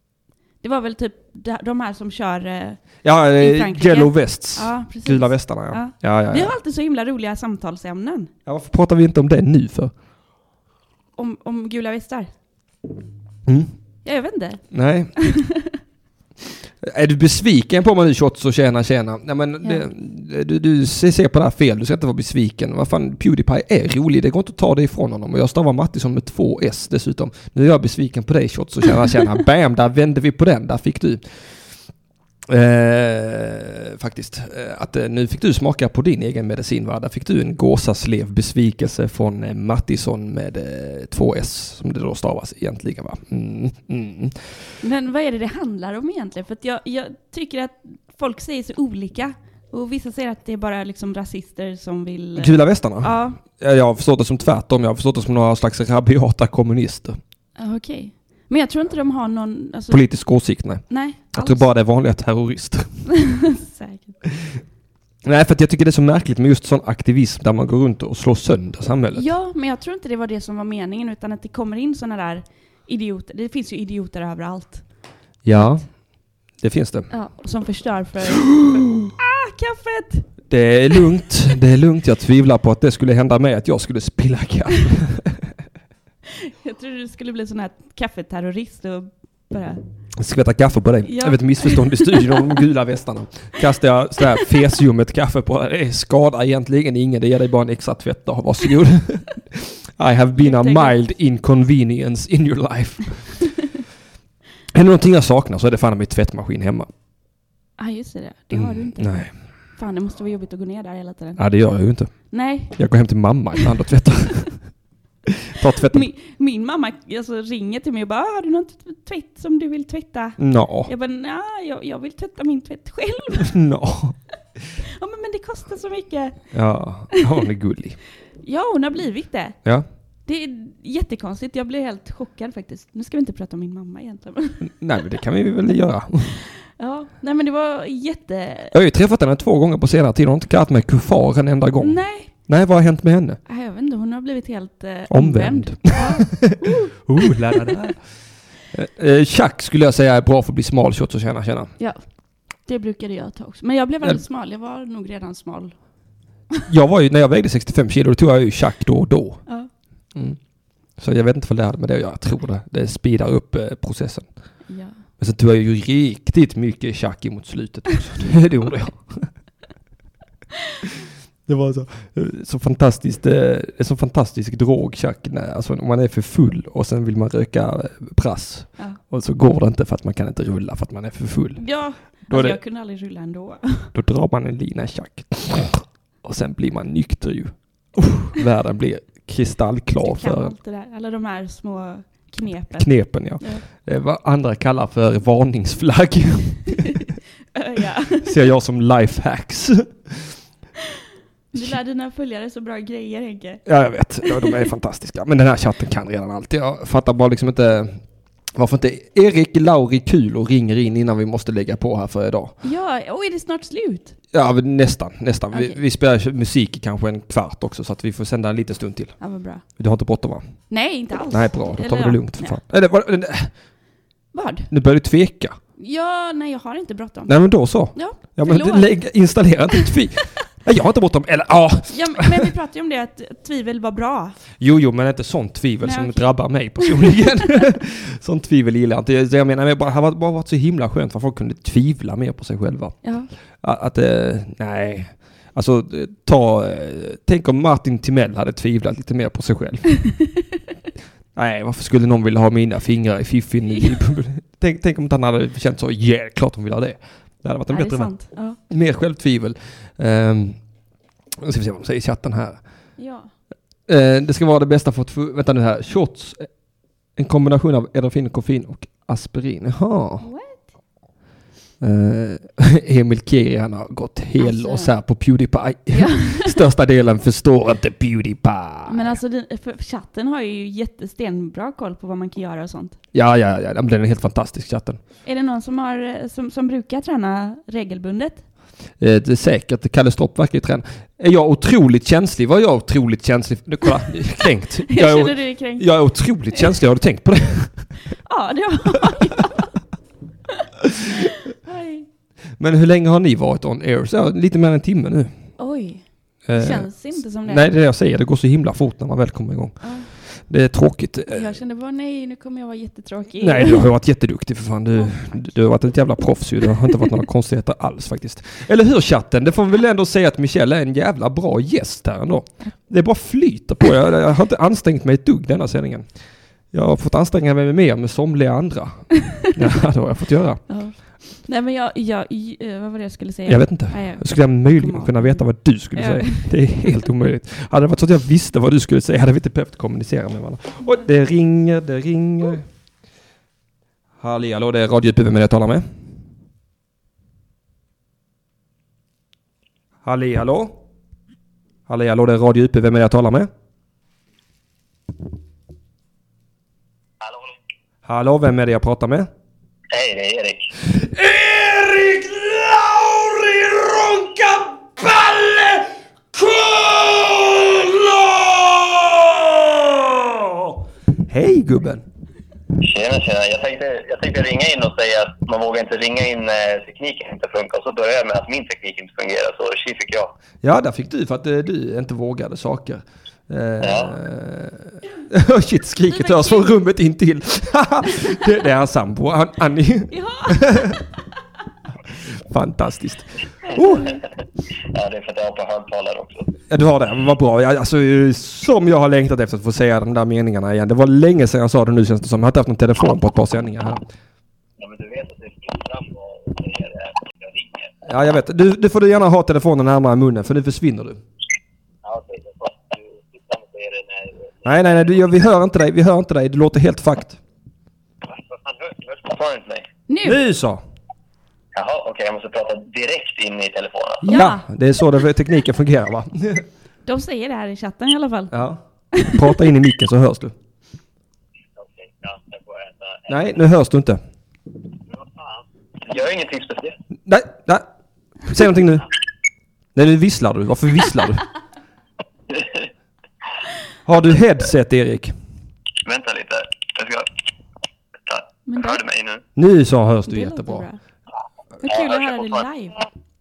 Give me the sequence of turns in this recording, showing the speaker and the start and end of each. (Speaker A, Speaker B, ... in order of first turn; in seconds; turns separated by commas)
Speaker A: 0.6-8.3, Speaker B: 3.0-6.6, Speaker B: 8.5-9.9, Speaker A: 11.2-12.3, Speaker B: 13.5-13.7, Speaker A: 14.0-14.6, Speaker B: 14.7-15.1, Speaker A: 15.2-15.8, Speaker B: 16.8-31.2, Speaker B: 32.5-44.4, Speaker A: 44.8-53.4, Speaker B: 52.4-57.2, Speaker A: 57.6-60.0, Speaker B: 59.9-63.1, Speaker A: 60.9-61.7, Speaker A: 63.1-64.2, Speaker B: 65.2-69.3, Speaker A: 69.1-74.8, Speaker B: 75.4-75.9, Speaker A: 75.5-75.8, Speaker B: 76.6-77.1, Speaker A: 77.1-80.3, Speaker B: 80.5-85.4, Speaker A: 86.3-89.8, Speaker B: 90.1-103.4, Speaker A: 91.0-92.6, Speaker A: 100.3-101.0, Speaker B: 104.7-106.9, Speaker A: 107.8-111.4, Speaker B: 108.5-109.3, Speaker B: 111.4-112.1, Speaker A: 112.3-112.8, Speaker B: 112.7-114.5, Speaker B: 115.5-116.1, Speaker A: 115.9-123.5, Speaker B: 120.4-120.9, Speaker B: 123.4-124.2, Speaker A: 124.8-126.5, Speaker B: 126.5-128.0, Speaker A: 128.4-129.6, Speaker A: 130.3-134.7, Speaker B: 134.6-136.4, Speaker A: 136.6-138.8, Speaker B: 138.7-143.4, Speaker A: 141.8-142.3, Speaker A: 143.5-147.8, Speaker B: 145.1-148.0, Speaker B: 148.7-151.7, Speaker A: 152.6-155.7, Speaker B: 156.7-159.4, Speaker B: 161.0-164.3, Speaker A: 164.7-165.0, Speaker B: 165.2-169.3, Speaker B: 171.5-182.6, Speaker A: 181.6-183.9, Speaker B: 183.9-190.6, Speaker A: 190.0-193.6, Speaker B: 192.8-197.0, Speaker A: 197.5-198.4, Speaker B: 198.2-200.3, Speaker A: 201.5-203.6, Speaker B: 203.7-208.0, Speaker A: 204.2-204.7, Speaker B: 208.6-212.6, Speaker A: 212.6-214.2, Speaker B: 214.3-219.2, Speaker A: 215.5-215.8, Speaker A: 219.2-219.6, Speaker B: 219.8-220.4, Speaker A: 220.7-222.6, Speaker B: 221.3-223.5, Speaker A: 224.3-224.7, Speaker B: 224.7-225.6, Speaker A: 225.8-229.0, Speaker B: 227.3-232.5, Speaker A: 231.9-234.4, Speaker B: 234.6-243.0, Speaker A: 235.8-237.4, Speaker A: 243.0-243.3, Speaker B: 243.6-249.9, Speaker B: 251.4-260.6, Speaker A: 253.7-254.0, Speaker A: 257.7-258.6, Speaker B: 261.4-262.6, Speaker A: 263.0-263.3, Speaker B: 263.9-266.5, Speaker B: 267.2-270.2, Speaker A: 270.2-270.6, Speaker B: 271.8-279.2, Speaker A: 274.4-274.9, Speaker A: 275.9-276.6, Speaker A: 278.9-283.0, Speaker B: 283.1-285.0, Speaker A: 285.2-288.4, Speaker B: 289.0-297.9, Speaker A: 294.9-295.9, Speaker A: 298.2-299.7, Speaker A: 301.5-302.1, Speaker B: 302.6-305.3, Speaker A: 305.6-307.7, Speaker B: 306.5-311.6, Speaker A: 309.8-310.1, Speaker A: 311.3-313.9, Speaker B: 313.4-326.1, Speaker A: 314.9-315.6, Speaker B: 326.7-330.6, Speaker A: 330.7-335.4, Speaker B: 333.5-342.6, Speaker A: 335.9-336.5, Speaker B: 344.2-345.9, Speaker B: 350.1-350.8, Speaker B: 351.9-353.5, Speaker B: 358.1-359.3, Speaker C: 359.9-360.7, Speaker B: 360.9-372.0, Speaker C: 372.8-380.3, Speaker B: 380.6-390.9, Speaker C: 383.8-384.1, Speaker A: 386.1-386.7, Speaker A: 390.1-391.1, Speaker B: 392.4-394.2, Speaker C: 394.9-396.5, Speaker B: 396.7-404.1, Speaker C: 404.8-407.9, Speaker B: 408.1-411.2, Speaker C: 412.0-415.2, Speaker B: 414.6-417.4, Speaker C: 418.3-419.9, Speaker A: 420.1-420.4, Speaker B: 420.2-420.8, Speaker C: 421.7-424.3, Speaker B: 424.2-426.6, Speaker A: 424.3-424.6, Speaker A: 427.1-428.5, Speaker B: 428.5-430.5, Speaker A: 429.1-429.5, Speaker C: 431.8-433.4, Speaker B: 433.3-434.2, Speaker C: 435.4-436.9, Speaker B: 437.3-437.9, Speaker B: 438.4-439.1, Speaker B: 439.9-441.5, Speaker C: 442.5-442.9, Speaker B: 444.1-445.4, Speaker C: 446.0-447.3, Speaker C: 448.3-449.4, Speaker A: 448.7-449.0, Speaker B: 449.6-450.9, Speaker A: 450.3-451.0, Speaker A: 451.8-453.0, Speaker C: 451.9-452.6